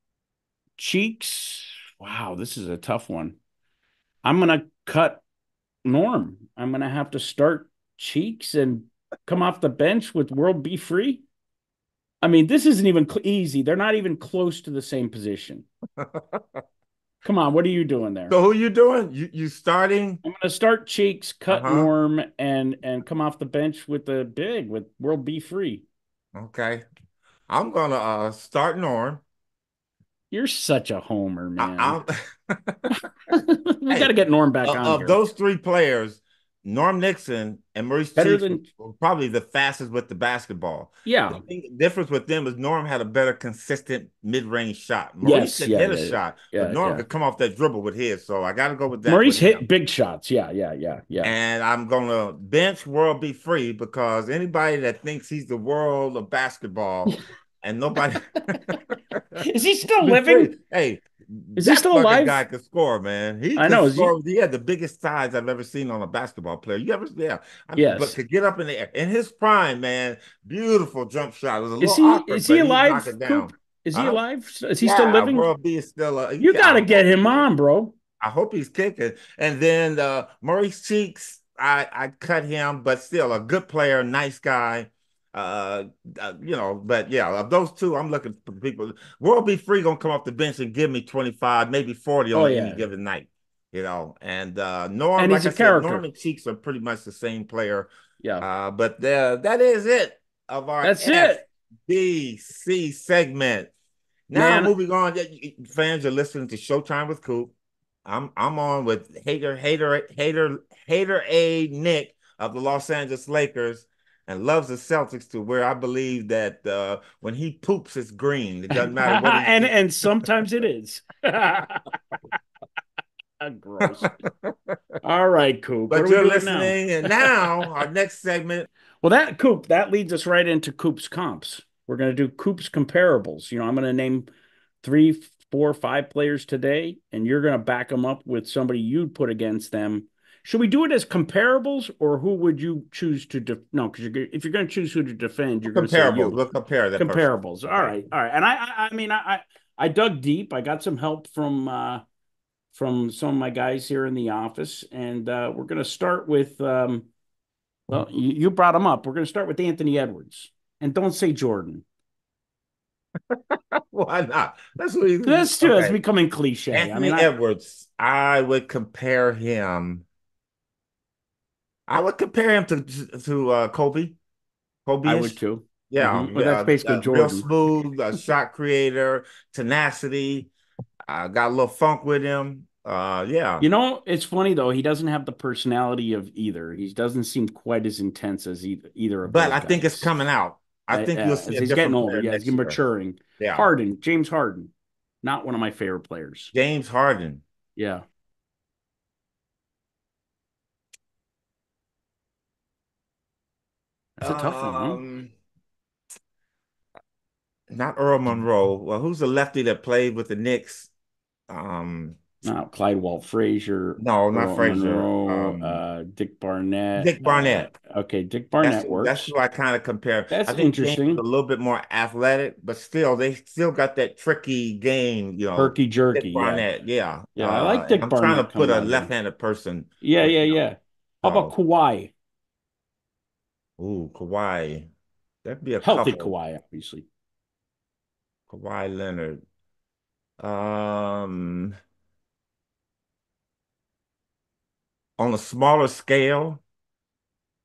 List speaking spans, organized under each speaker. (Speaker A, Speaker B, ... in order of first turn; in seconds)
Speaker A: 0.8-3.4, 4.2-5.2, 5.8-11.2, 12.2-15.7, 17.2-18.4, 20.2-25.9, 30.3-32.0, 33.3-35.2, 38.2-38.7, 41.0-41.4, 45.2-47.0, 49.1-51.3, 59.4-60.5, 61.6-62.4, 63.6-64.1, 67.8-68.2, 71.8-75.5, 76.4-78.0, 92.3-92.9, 95.2-96.0, 100.8-101.5, 104.3-104.7, 118.8-122.0, 123.4-124.1, 125.0-127.3, 129.0-134.3, 134.8-146.4, 147.0-152.0, 152.7-157.1, 157.9-161.8, 165.2-167.3, 175.0-177.5, 183.6-190.1, 190.9-194.7, 195.2-196.5, 197.8-198.1, 204.2-205.0, 212.4-219.3, 220.3-221.2, 225.6-226.7, 227.3-229.1, 230.0-232.1, 235.8-237.1
Speaker B: 16.0-16.6, 18.3-20.2, 21.5-21.9, 26.4-26.8, 27.5-29.2, 31.6-33.0, 33.9-49.6, 51.2-59.4, 60.0-74.2, 74.8-77.5, 78.2-103.7, 104.3-107.5, 108.0-120.3, 123.8-124.5, 125.9-128.7, 145.7-148.0, 163.3-166.0, 166.7-170.1, 171.9-174.2, 174.9-180.5, 181.1-183.7, 189.3-192.8, 193.4-193.7, 196.5-197.4, 204.2-205.3, 207.7-210.9, 211.5-212.3, 214.0-215.8, 217.0-217.7, 218.6-230.6, 231.2-231.5, 233.8-234.9, 235.4-236.3, 238.5-239.4, 240.4-241.7, 245.2-246.6